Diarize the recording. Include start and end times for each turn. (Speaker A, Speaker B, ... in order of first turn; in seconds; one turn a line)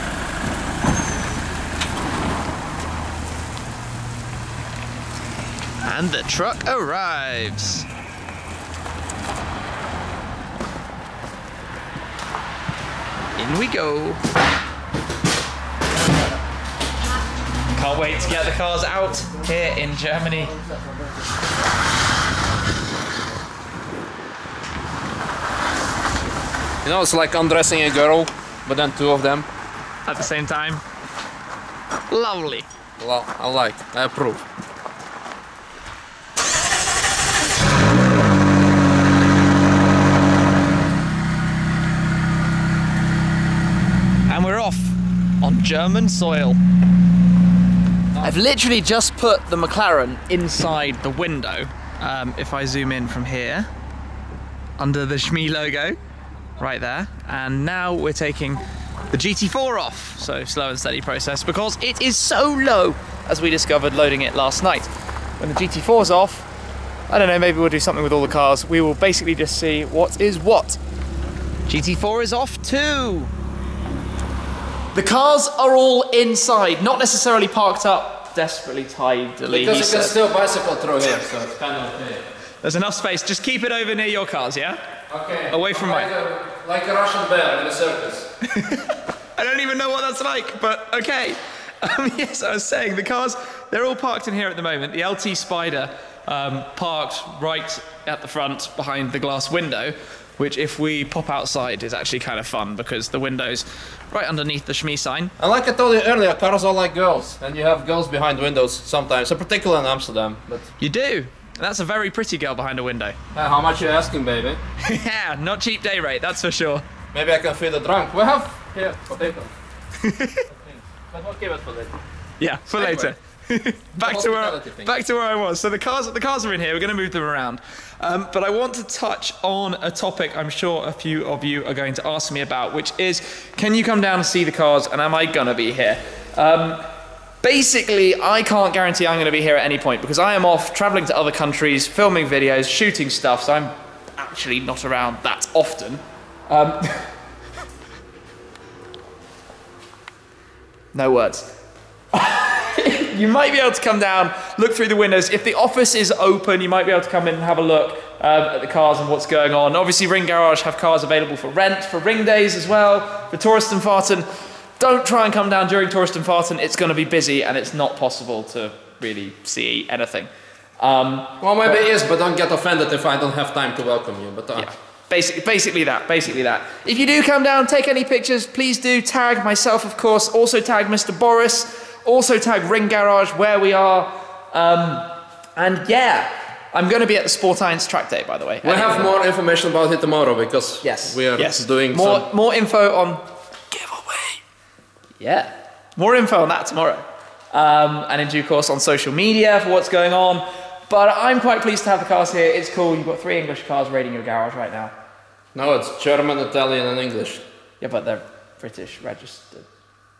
Speaker A: 5.8-7.8
Speaker A: 13.4-14.2
Speaker A: 17.7-20.5
Speaker B: 26.8-29.5
Speaker A: 30.1-30.8
Speaker A: 32.1-32.7
Speaker B: 33.0-34.4
Speaker A: 44.3-46.6
Speaker A: 48.2-53.7
Speaker A: 54.8-56.0
Speaker A: 56.6-64.9
Speaker A: 65.4-66.5
Speaker A: 67.1-70.8
Speaker A: 71.7-73.3
Speaker A: 74.9-80.2
Speaker B: 79.5-82.2
Speaker A: 82.6-84.8
Speaker B: 85.1-88.3
Speaker A: 85.5-86.1
Speaker A: 88.4-105.3
Speaker B: 105.4-110.7
Speaker A: 110.8-113.2
Speaker B: 113.3-114.6
Speaker A: 114.8-116.8
Speaker B: 117.1-119.5
Speaker A: 120.0-120.5
Speaker B: 120.7-121.9
Speaker A: 122.4-136.8
Speaker B: 122.7-123.1
Speaker B: 124.0-124.9
Speaker A: 137.4-147.1
Speaker A: 150.9-151.5
Speaker A: 152.1-164.3
Speaker A: 164.8-170.3
Speaker A: 170.8-171.8
Speaker B: 171.4-174.7
Speaker A: 174.6-189.1
Speaker B: 188.6-192.2
Speaker A: 190.8-194.4
Speaker A: 195.2-204.9
Speaker B: 205.5-207.4
Speaker A: 207.8-209.7